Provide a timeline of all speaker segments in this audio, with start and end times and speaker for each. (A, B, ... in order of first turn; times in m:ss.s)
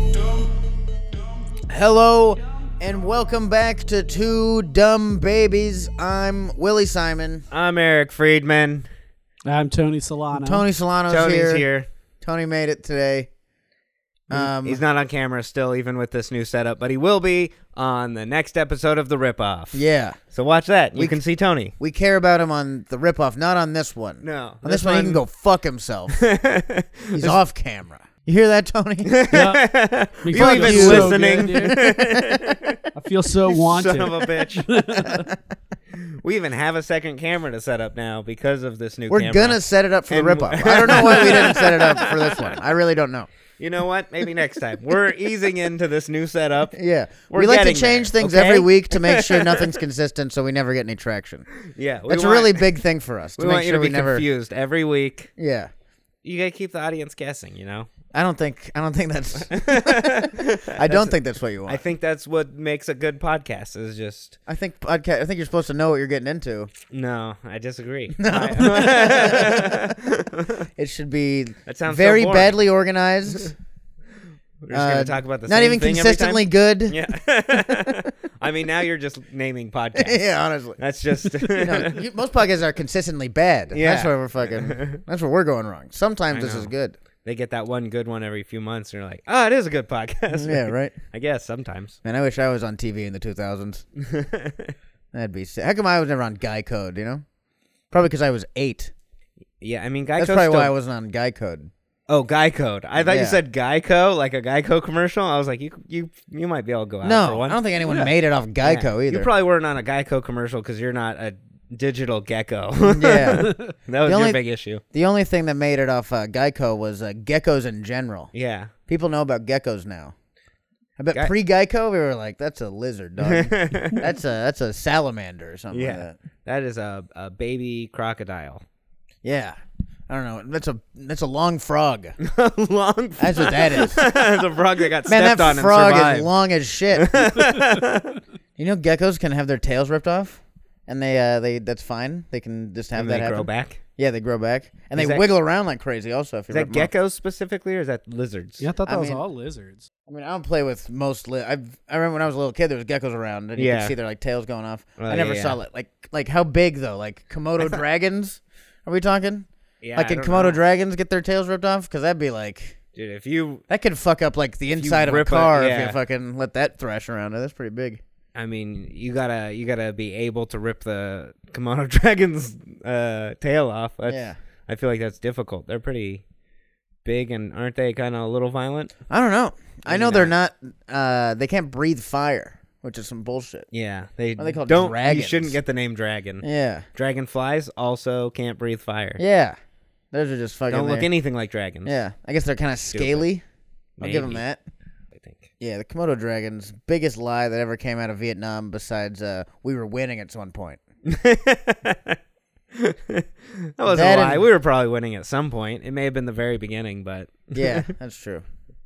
0:01.7-0:07.4 A
0:07.5-0:08.9 B
0:09.4-0:10.6 C
0:10.3-0:11.6 A
0:11.1-0:11.9 B
0:12.2-0:13.3 A
0:14.3-0:14.8 A
0:14.3-0:19.8 B
0:19.7-0:20.2 A
0:20.3-0:21.7 B
0:20.9-0:21.2 A
0:21.8-0:26.2 A
0:24.2-0:25.2 B
0:26.1-0:27.4 B
0:27.1-0:29.1 A
0:29.0-0:32.8 B
0:29.3-0:31.8 C
0:30.3-0:32.4 A
0:32.9-0:35.3 C
0:33.5-0:34.7 B
0:35.9-0:42.6 B
0:39.1-0:43.3 A
0:43.6-0:46.8 B
0:46.7-0:51.5 A
0:47.3-0:49.7 B
0:51.6-0:52.7 B
0:52.1-0:54.2 A
0:53.4-0:55.3 B
0:55.4-0:55.7 A
0:56.2-0:57.9 B
0:58.1-1:01.8 A
0:59.5-1:04.4 B
1:04.5-1:06.7 A
1:06.9-1:10.6 B
1:08.1-1:09.9 A
1:10.8-1:13.5 A
1:11.6-1:12.6 B
1:14.6-1:20.2 B
1:14.7-1:17.0 A
1:17.6-1:18.0 A
1:20.0-1:20.8 A
1:20.8-1:22.0 B
1:21.5-1:27.0 A
1:23.7-1:25.0 B
1:26.3-1:26.7 B
1:27.2-1:32.0 B
1:30.3-1:30.9 A
1:32.0-1:33.8 A
1:34.0-1:34.7 B
1:35.1-1:37.2 A
1:37.9-1:38.9 A
1:39.6-1:40.7 B
1:40.2-1:41.7 A
1:42.1-1:48.1 B
1:43.0-1:43.4 A
1:47.0-1:49.3 A
1:48.6-1:54.8 B
1:52.9-1:54.4 A
1:53.4-1:53.7 C
1:54.9-1:58.3 A
1:58.3-1:58.7 B
1:58.9-2:00.1 A
2:01.0-2:06.1 A
2:03.2-2:04.0 B
2:05.7-2:08.6 B
2:09.2-2:09.6 A
2:10.1-2:12.2 A
2:12.2-2:16.3 B
2:13.2-2:14.0 A
2:15.1-2:17.4 A
2:16.9-2:18.2 B
2:18.6-2:26.9 A
2:23.0-2:23.8 B
2:24.9-2:25.2 B
2:26.5-2:28.7 B
2:28.6-2:29.9 C
2:28.8-2:29.2 A
2:30.1-2:42.8 A
2:33.6-2:33.9 B
2:35.0-2:35.6 B
2:39.8-2:40.6 B
2:43.0-2:43.6 B
2:43.7-2:48.0 A
2:44.8-2:46.0 B
2:48.3-2:56.2 B
2:54.1-2:54.4 A
2:57.0-2:58.9 B
2:59.1-3:03.7 A
2:59.8-3:00.3 B
3:03.7-3:09.2 B
3:04.4-3:05.6 A
3:06.4-3:06.9 A
3:09.2-3:09.6 A
3:10.1-3:11.1 A
3:10.7-3:11.9 B
3:11.8-3:13.4 A
3:12.9-3:13.2 B
3:14.0-3:14.4 B
3:14.0-3:14.6 A
3:15.1-3:15.5 B
3:15.6-3:20.8 A
3:21.0-3:22.2 B
3:22.7-3:27.8 B
3:23.8-3:24.4 A
3:27.5-3:28.4 A